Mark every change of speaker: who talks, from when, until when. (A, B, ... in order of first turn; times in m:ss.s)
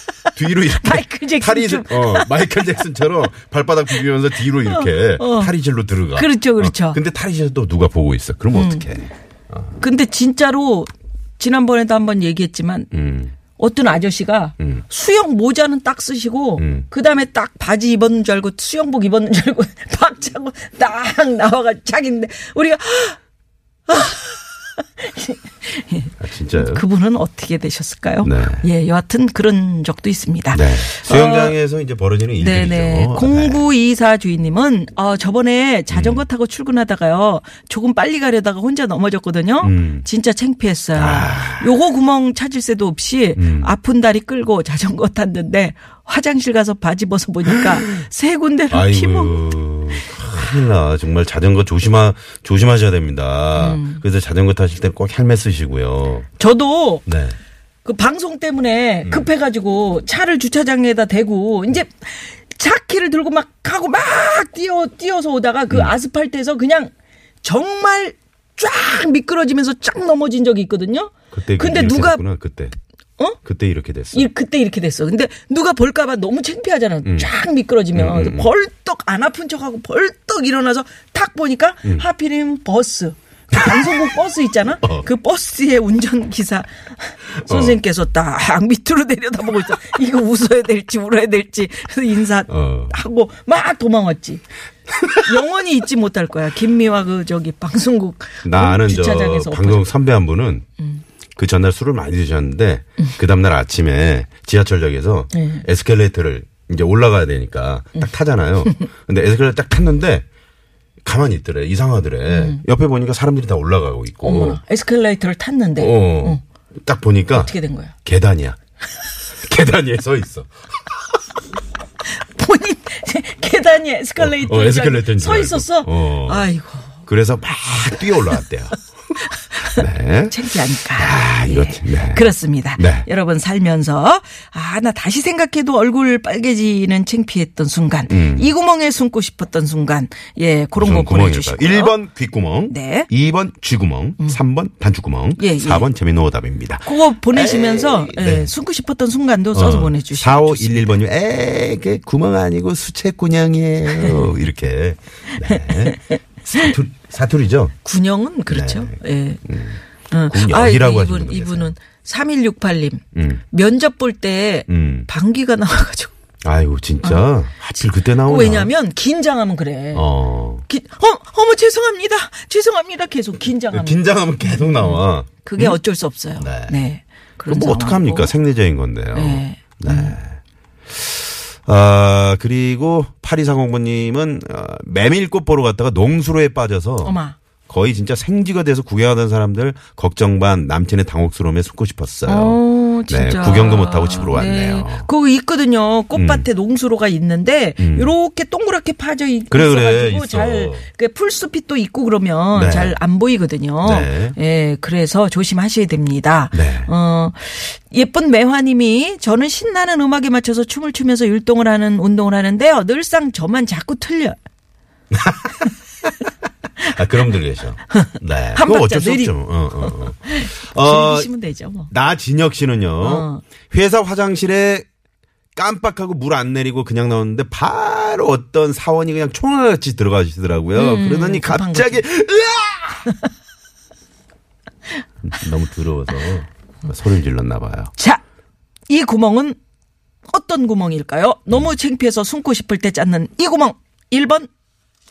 0:00.4-0:09.7 A
0:00.8-0:02.3 B
0:04.6-0:05.5 B
0:06.2-0:07.0 B
0:08.5-0:08.9 B
0:09.8-0:12.9 B
0:12.9-0:13.3 A
0:13.5-0:23.2 B
0:16.6-0:16.9 A
0:23.9-0:31.6 B
0:26.2-0:26.8 A
0:28.2-0:28.6 A
0:30.5-0:33.6 A
0:32.4-0:49.5 B
0:35.9-0:36.2 A
0:39.6-0:40.1 A
0:41.0-0:41.7 A
0:43.4-0:43.7 A
0:48.7-0:56.3 A
0:53.6-0:54.0 B
0:56.4-0:57.0 B
0:57.1-0:57.4 A
0:57.8-1:06.9 B
0:59.0-0:59.3 A
1:05.7-1:06.0 A
1:07.4-1:12.2 B
1:11.3-1:12.8 A
1:13.4-1:14.3 A
1:14.1-1:34.4 B
1:17.0-1:17.3 A
1:17.9-1:18.5 A
1:23.5-1:24.0 A
1:27.5-1:27.8 A
1:32.5-1:33.0 A
1:35.0-1:35.4 A
1:35.2-1:39.9 B
1:38.4-1:40.6 A
1:41.4-1:50.2 A
1:45.3-1:45.6 B
1:51.0-1:54.6 A
1:52.3-1:52.6 B
1:54.2-1:56.4 B
1:55.8-1:57.5 A
1:57.4-1:57.9 B
1:58.0-1:58.6 A
1:59.4-2:00.5 A
2:02.2-2:07.0 B
2:04.2-2:06.5 A
2:07.1-2:08.8 A
2:09.4-2:22.0 B
2:09.7-2:13.1 A
2:18.1-2:18.5 A
2:20.8-2:28.5 A
2:22.7-2:23.1 B
2:25.4-2:25.9 B
2:26.9-2:31.0 B
2:29.5-2:37.8 A
2:37.8-2:39.4 B
2:38.5-2:41.7 A
2:40.1-2:46.1 B
2:43.2-2:43.4 A
2:44.7-2:45.1 A
2:46.4-2:48.7 A
2:48.2-2:50.1 B
2:49.9-2:50.7 A
2:50.6-2:58.3 B
2:53.7-2:55.8 A
2:56.4-2:56.8 A
2:57.5-3:00.4 A
2:59.1-3:00.2 B
3:00.9-3:15.1 A
3:07.0-3:07.4 B
3:12.3-3:34.4 B
3:16.1-3:16.5 A
3:17.8-3:18.1 A
3:19.5-3:20.9 A
3:22.5-3:23.0 A
3:23.8-3:24.4 A
3:26.5-3:26.9 A
3:35.1-3:35.7 A
3:36.8-3:41.3 A
3:38.0-3:41.9 B
3:41.9-3:44.9 A
3:43.0-3:43.4 B
3:45.6-3:53.1 A
3:50.8-3:52.0 B
3:55.2-3:57.9 A
3:58.9-3:59.6 B
4:00.3-4:04.5 B